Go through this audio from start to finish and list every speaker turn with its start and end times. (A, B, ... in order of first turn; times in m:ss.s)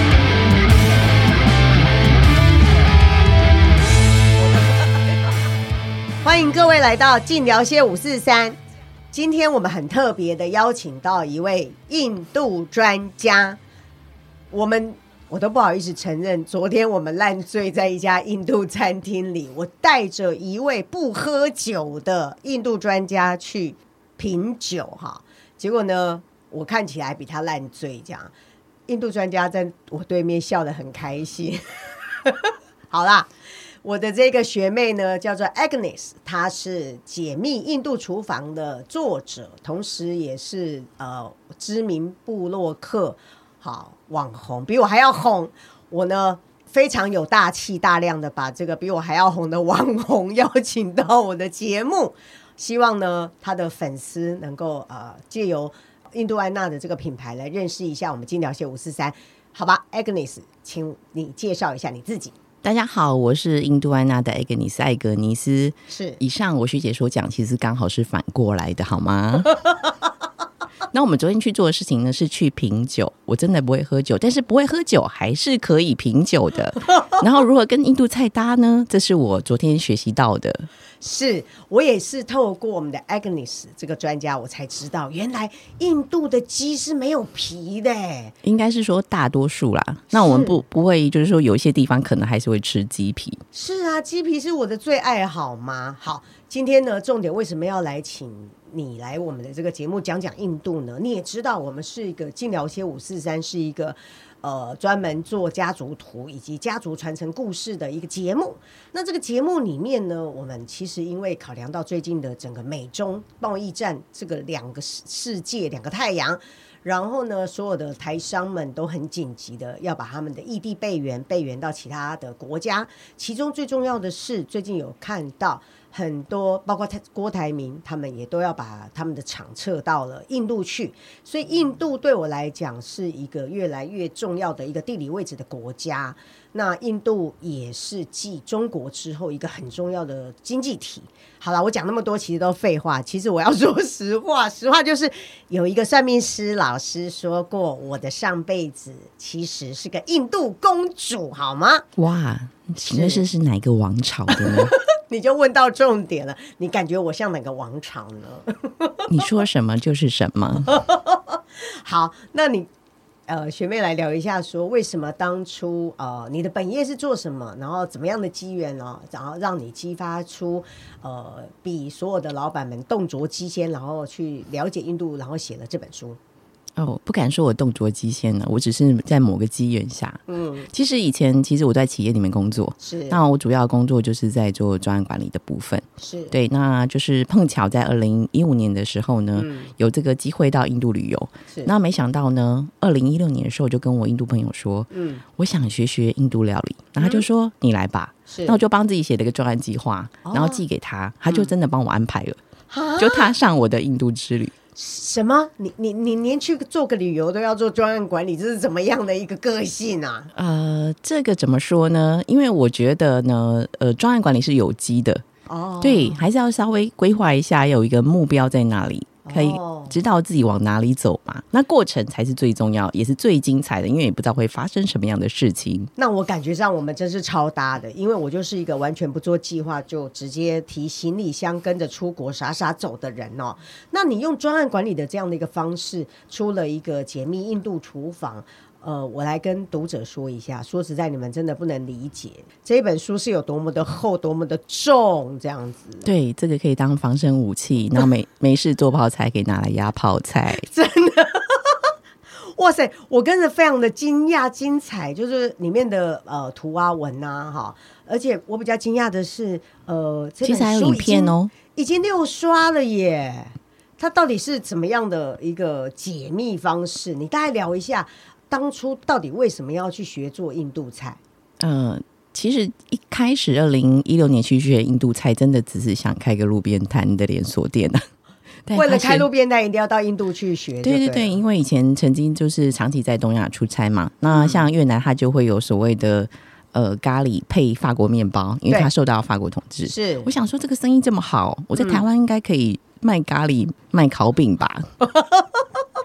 0:06.2-0:08.6 A
0:09.1-0:13.6 A
0:14.5-0:28.3 A
0:28.9-0:33.3 A
0:33.8-1:02.4 A
1:02.6-1:09.6 B
1:05.9-1:06.2 A
1:10.9-1:20.7 B
1:16.9-1:17.2 A
1:21.0-1:28.4 A
1:28.4-1:33.4 B
1:30.1-1:30.6 A
1:33.5-2:31.9 A
2:32.0-2:34.8 B
2:32.8-2:33.2 A
2:34.3-2:39.3 A
2:39.1-2:40.7 B
2:40.6-2:42.7 A
2:43.3-2:56.2 A
2:56.8-3:22.4 B
3:00.3-3:00.7 A
3:02.8-3:03.2 A
3:06.0-3:06.4 A
3:09.4-3:09.7 A
3:14.9-3:15.2 A
3:17.0-3:17.2 A
3:18.3-3:18.6 A
3:20.2-3:20.6 A
3:21.3-3:21.5 A
3:22.7-3:23.3 A
3:23.0-3:24.5 B
3:24.8-3:30.3 A
3:30.3-3:35.2 B
3:35.5-3:36.2 A
3:35.8-3:45.9 B
3:39.2-3:40.0 A
3:46.0-4:06.1 A
4:06.0-4:10.7 B
4:10.5-4:31.2 A
4:20.4-4:21.5 B
4:31.6-4:38.0 B
4:38.7-4:39.3 B
4:38.7-4:41.4 A
4:40.8-4:54.9 B
4:44.3-4:44.7 A
4:49.9-4:50.3 A
4:51.8-4:52.0 A
4:55.0-4:55.7 A